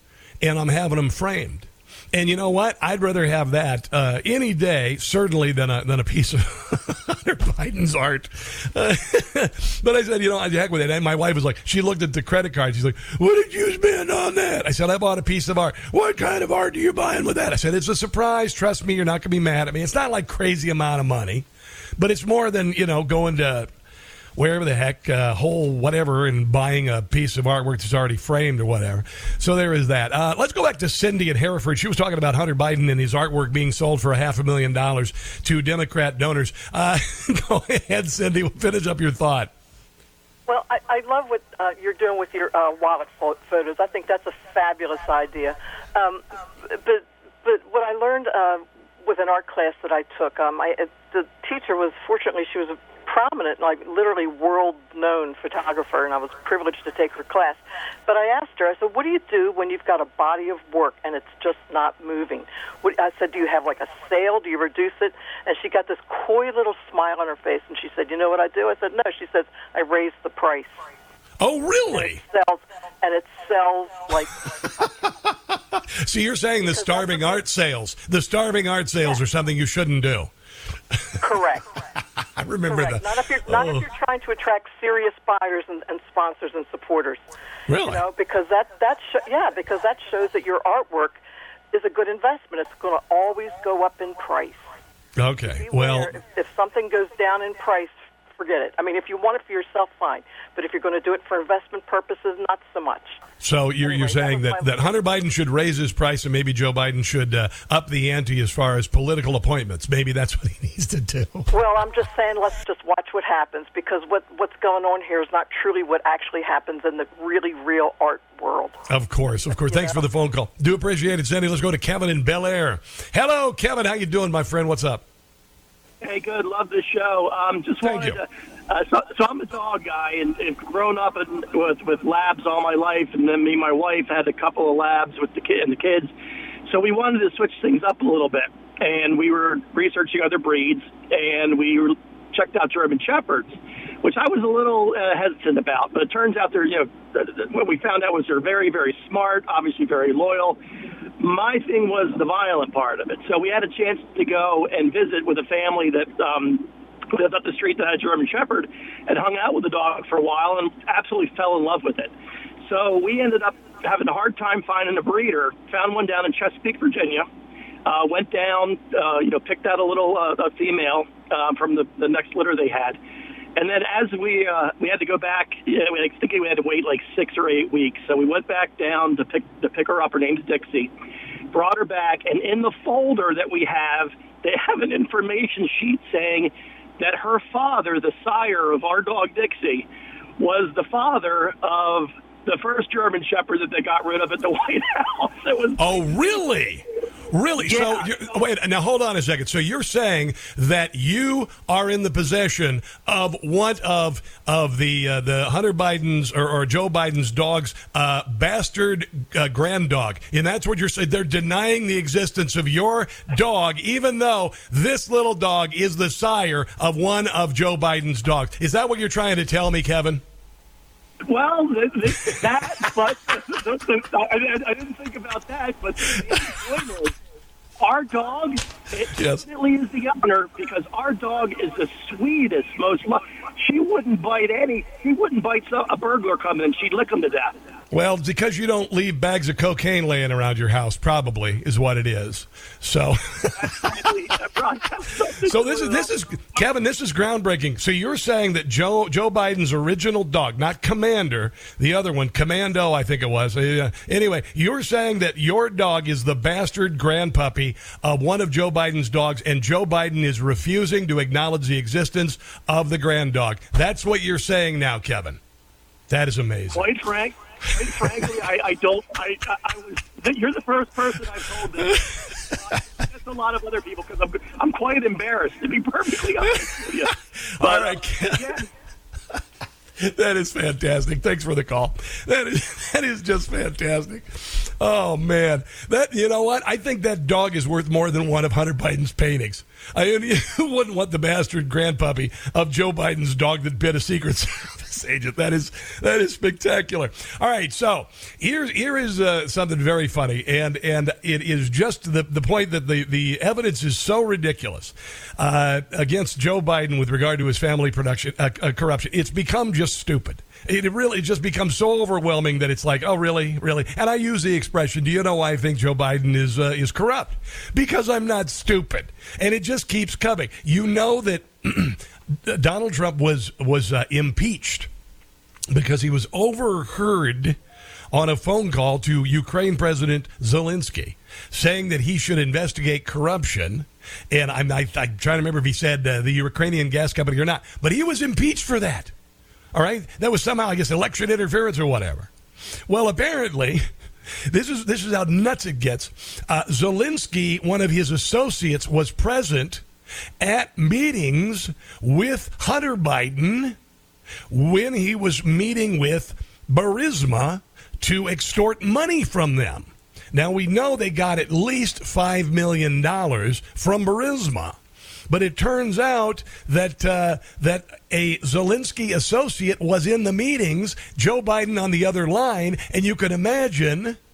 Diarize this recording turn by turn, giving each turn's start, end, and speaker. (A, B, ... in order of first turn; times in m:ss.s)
0:00.4-0:21.5 A
0:22.0-0:23.7 A
0:24.4-0:39.5 A
0:40.5-1:10.8 B
1:11.4-1:12.2 A
1:11.9-1:14.4 B
1:16.0-1:20.3 A
1:16.7-1:17.4 B
1:21.2-1:21.7 B
1:22.4-1:23.8 A
1:22.7-1:27.2 B
1:27.7-1:28.0 A
1:27.8-1:31.2 B
1:31.7-1:34.6 B
1:35.2-1:36.1 A
1:35.6-1:43.2 B
1:43.4-1:51.5 A
1:43.8-1:44.9 B
1:51.5-1:58.8 B
1:58.9-2:05.0 A
1:59.6-2:00.0 B
2:06.0-2:16.1 C
2:07.8-2:08.2 A
2:16.7-2:30.6 C
2:31.2-2:42.1 C
2:42.6-2:47.3 C
2:47.8-2:53.0 C
2:53.6-3:00.9 C
3:01.5-3:09.9 C
3:10.4-3:16.4 C
3:15.8-3:40.2 A
3:17.6-3:18.1 C
3:41.3-3:47.2 C
3:47.8-3:57.6 C
3:49.1-3:49.4 A
3:57.9-4:04.0 A
4:03.6-4:06.6 C
4:05.4-4:25.4 A
4:26.1-4:27.0 A
4:26.7-4:32.1 C
4:28.0-4:28.3 A
4:33.0-4:38.7 C
4:37.5-4:38.6 A
4:40.0-5:24.9 A
5:25.7-5:27.6 A
5:28.1-5:39.1 A
5:39.7-5:42.3 A
5:42.9-5:43.8 A
5:44.5-5:49.8 A
5:50.4-5:53.8 A
5:54.5-6:04.8 A
6:05.3-6:14.2 A